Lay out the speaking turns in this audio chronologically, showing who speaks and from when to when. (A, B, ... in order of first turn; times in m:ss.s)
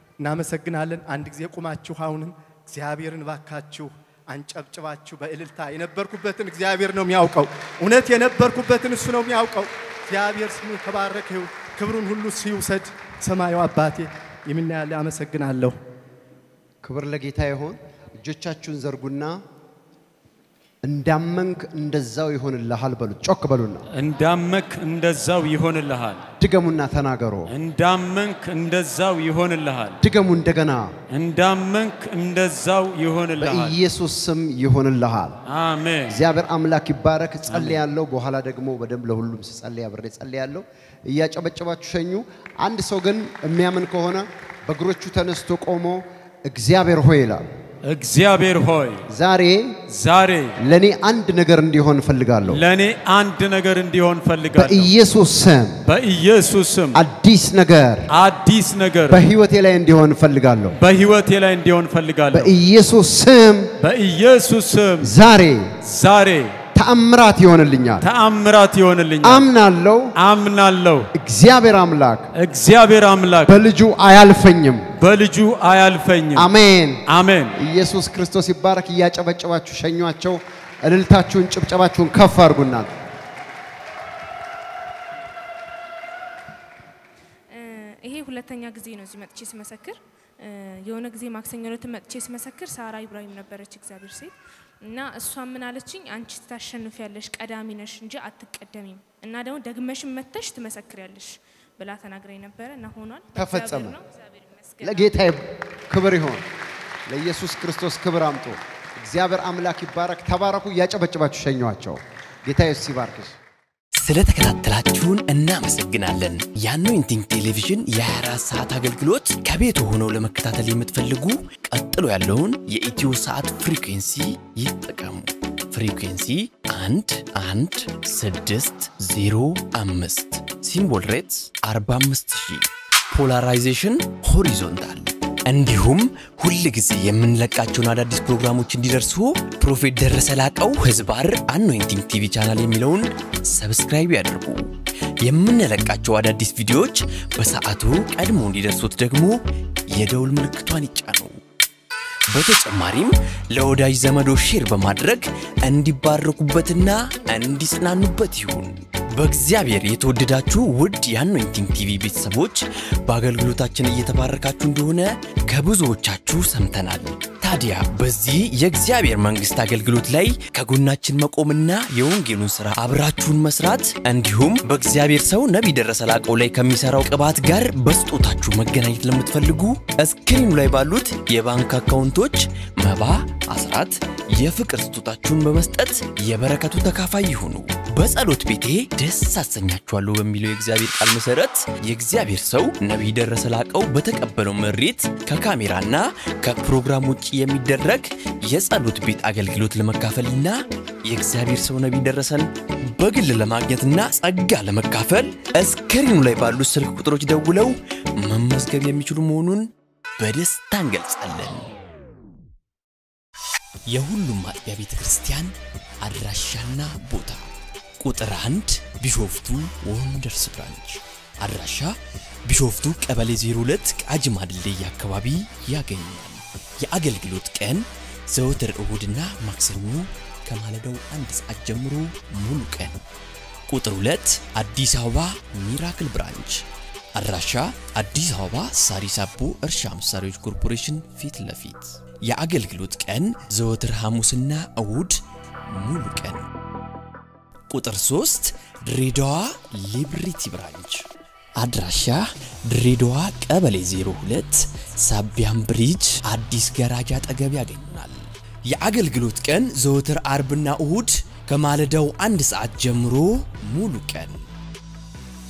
0:00.2-0:15.8 A
0:16.8-0:19.4 B
0:20.8-0:23.9 B
0:23.9-0:26.2 C
0:26.4-0:27.5 B
0:27.5-0:30.0 C
0:30.0-0:30.9 B
0:31.1-0:33.8 C
0:33.4-0:35.4 B
0:35.5-0:36.2 C
0:36.1-0:47.4 B
0:37.5-0:37.8 C
0:47.8-0:49.0 C
0:49.1-0:49.8 B
0:49.9-0:50.6 C
0:50.6-0:52.6 B
0:52.4-0:54.9 C
0:54.6-0:55.8 B
0:55.8-0:57.0 C
0:56.9-0:58.1 B
0:58.1-0:59.3 C
0:59.1-1:00.8 B
1:00.7-1:02.5 C
1:02.3-1:03.7 B
1:03.8-1:05.2 C
1:05.0-1:05.8 B
1:05.8-1:06.6 C
1:06.7-1:08.1 B
1:08.0-1:09.5 C
1:09.2-1:10.1 B
1:10.2-1:11.1 C
1:11.1-1:12.3 B
1:12.4-1:13.6 C
1:13.5-1:14.9 B
1:15.0-1:16.5 C
1:16.4-1:17.0 B
1:17.1-1:17.6 C
1:17.6-1:22.9 B
1:27.5-1:45.2 D
1:43.4-1:44.0 B
1:44.8-1:46.4 B
1:47.1-1:53.4 B
1:54.0-2:24.7 E
2:25.2-2:31.4 E
2:32.3-3:31.7 E
3:33.9-3:37.5 E
3:38.0-3:42.0 E
3:42.5-3:53.0 E
3:53.7-3:56.6 E
3:57.2-4:05.2 E
4:05.8-4:06.4 E
4:07.7-4:11.0 E
4:11.6-4:24.5 E